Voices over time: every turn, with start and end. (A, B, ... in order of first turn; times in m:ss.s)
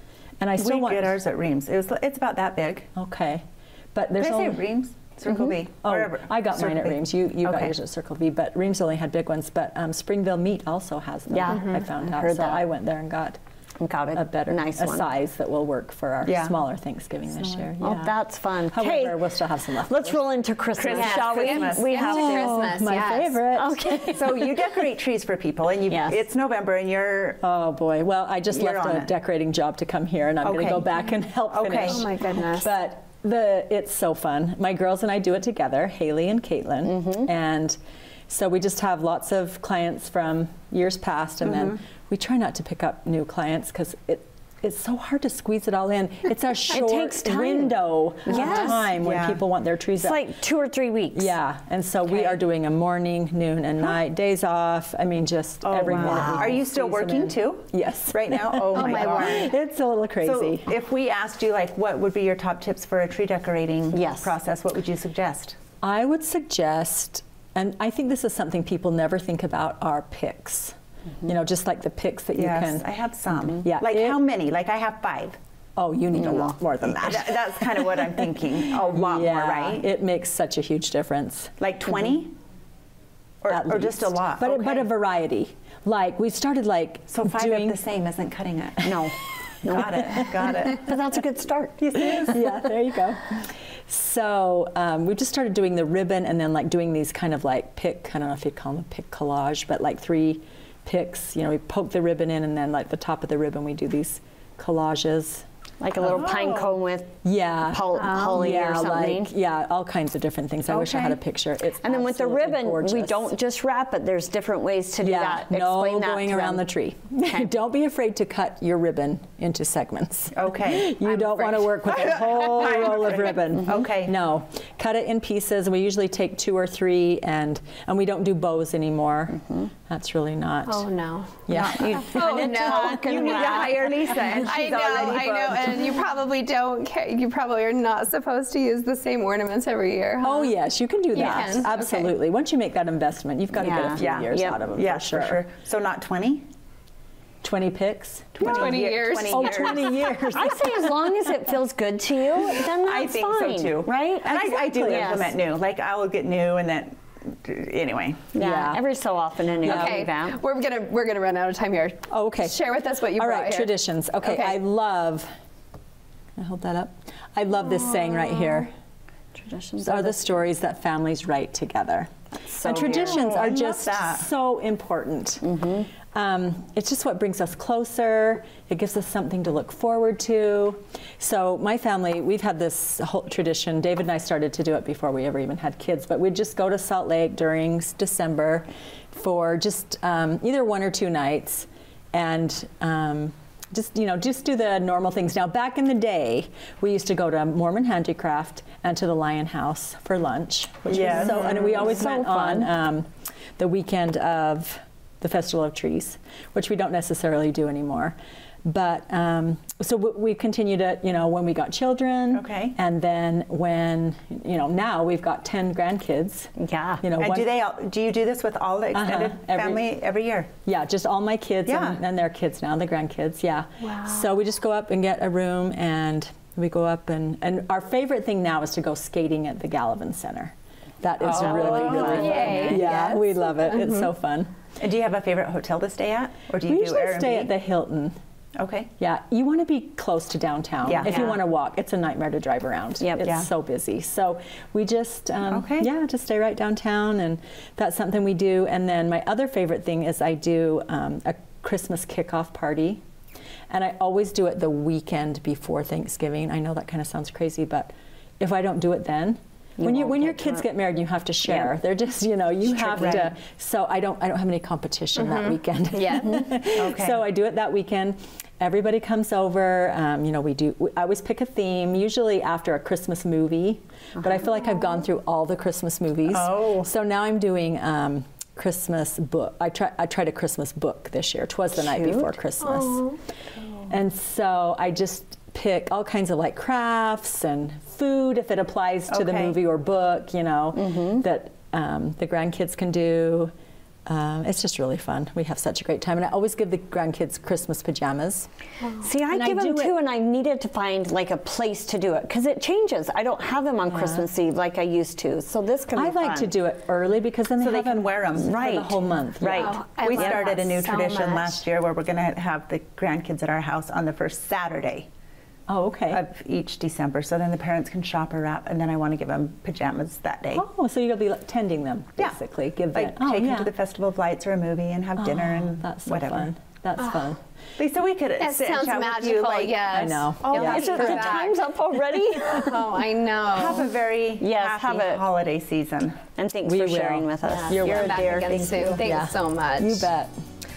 0:00.4-0:01.2 A
0:00.6-0:02.9 B
0:02.9-0:04.6 A
0:04.2-0:07.7 B
0:05.8-0:13.4 A
0:11.3-0:12.6 C
0:11.5-0:11.8 D
0:13.8-0:15.0 C
0:14.1-0:20.2 A
0:16.2-0:16.5 B
0:17.4-0:17.7 B
0:17.8-0:22.6 C
0:20.8-0:22.0 B
0:20.9-0:23.4 D
0:22.0-0:24.2 A
0:23.5-0:24.5 C
0:24.1-0:27.4 B
0:25.9-0:26.3 C
0:27.4-0:37.8 A
0:28.5-0:29.1 B
0:30.4-0:30.9 B
0:31.5-0:32.0 B
0:31.8-0:32.7 D
0:36.8-0:37.3 C
0:38.3-0:50.3 A
0:41.4-0:41.8 B
0:46.7-0:48.9 C
0:48.3-0:49.4 B
0:50.0-0:51.3 C
0:51.1-1:00.7 A
0:52.0-0:52.4 B
0:55.6-0:59.5 B
0:56.0-0:56.6 C
0:58.7-0:59.5 D
1:00.2-1:05.6 B
1:03.9-1:04.3 C
1:05.8-1:12.9 A
1:12.3-1:15.4 B
1:13.6-1:14.2 A
1:15.8-1:18.2 A
1:16.1-1:16.5 C
1:16.9-1:19.9 B
1:18.8-1:21.5 A
1:21.6-1:22.3 B
1:23.4-1:24.9 B
1:23.5-1:27.8 A
1:27.1-1:28.9 B
1:28.8-1:32.4 C
1:29.6-1:30.9 B
1:30.1-1:30.5 A
1:31.8-1:32.4 B
1:31.9-1:45.4 A
1:45.8-1:47.1 C
1:46.0-1:46.8 B
1:47.2-1:53.3 A
1:47.6-1:49.3 C
1:50.6-1:51.2 B
1:51.8-1:56.7 C
1:55.0-2:10.8 A
1:57.2-1:57.5 C
2:00.3-2:00.9 B
2:01.0-2:02.9 D
2:01.9-2:04.1 B
2:10.6-2:11.5 D
2:11.5-2:12.1 A
2:11.5-2:16.0 B
2:11.5-2:13.9 C
2:12.0-2:20.5 D
2:20.2-2:25.4 A
2:21.1-2:22.1 D
2:23.6-2:24.6 C
2:24.0-2:26.5 B
2:27.4-2:28.8 A
2:28.4-2:30.0 B
2:28.4-2:30.1 D
2:29.3-2:31.2 A
2:30.3-2:35.4 C
2:32.5-2:38.3 B
2:34.2-2:35.3 A
2:38.3-2:40.4 C
2:38.4-2:38.8 A
2:39.6-2:40.0 A
2:39.6-2:44.6 D
2:42.1-2:45.3 A
2:46.4-2:48.7 A
2:49.3-2:50.3 C
2:49.8-2:52.1 A
2:52.5-2:53.3 C
2:52.6-2:55.5 A
2:52.7-2:54.3 B
2:55.4-2:55.9 C
2:56.1-3:37.5 A
3:20.9-3:21.8 B
3:21.1-3:22.7 C
3:32.3-3:32.7 B
3:36.6-3:37.0 C
3:37.2-3:40.5 B
3:38.9-3:39.8 A
3:40.6-3:54.5 A
3:41.7-3:42.0 B
3:51.2-3:52.8 B
3:51.3-3:52.8 C
3:52.0-3:54.1 D
3:54.8-3:57.5 B
3:56.6-3:58.2 A
3:58.6-3:58.9 B
3:59.0-4:13.0 A
4:00.8-4:01.4 B
4:01.0-4:01.3 C
4:03.0-4:03.3 C
4:03.2-4:03.5 B
4:05.5-4:05.9 B
4:13.7-4:43.2 A
4:19.8-4:20.7 C
4:22.6-4:23.3 B
4:25.2-4:26.5 D
4:26.7-4:27.2 B
4:34.2-4:34.4 C
4:36.3-4:36.9 B
4:41.7-4:42.4 C
4:42.8-4:43.1 D
4:43.9-4:53.5 A
4:49.1-4:49.6 B
4:50.7-4:51.2 C
4:54.0-4:58.5 A
4:59.0-5:06.5 C
4:59.3-4:59.9 A
5:03.9-5:04.2 A
5:05.9-5:09.8 A
5:07.6-5:08.5 B
5:08.4-5:10.4 C
5:09.6-5:11.6 D
5:10.0-5:15.0 B
5:15.7-5:16.2 A
5:16.1-5:20.6 B
5:20.5-5:23.7 A
5:22.9-5:26.5 B
5:25.2-5:27.4 A
5:27.8-5:31.2 B
5:28.4-5:31.6 D
5:29.9-5:31.3 A
5:30.5-5:32.7 C
5:32.5-5:33.9 D
5:33.5-5:36.2 B
5:34.4-5:35.2 C
5:36.4-5:39.0 C
5:36.6-5:40.3 A
5:37.4-5:40.1 D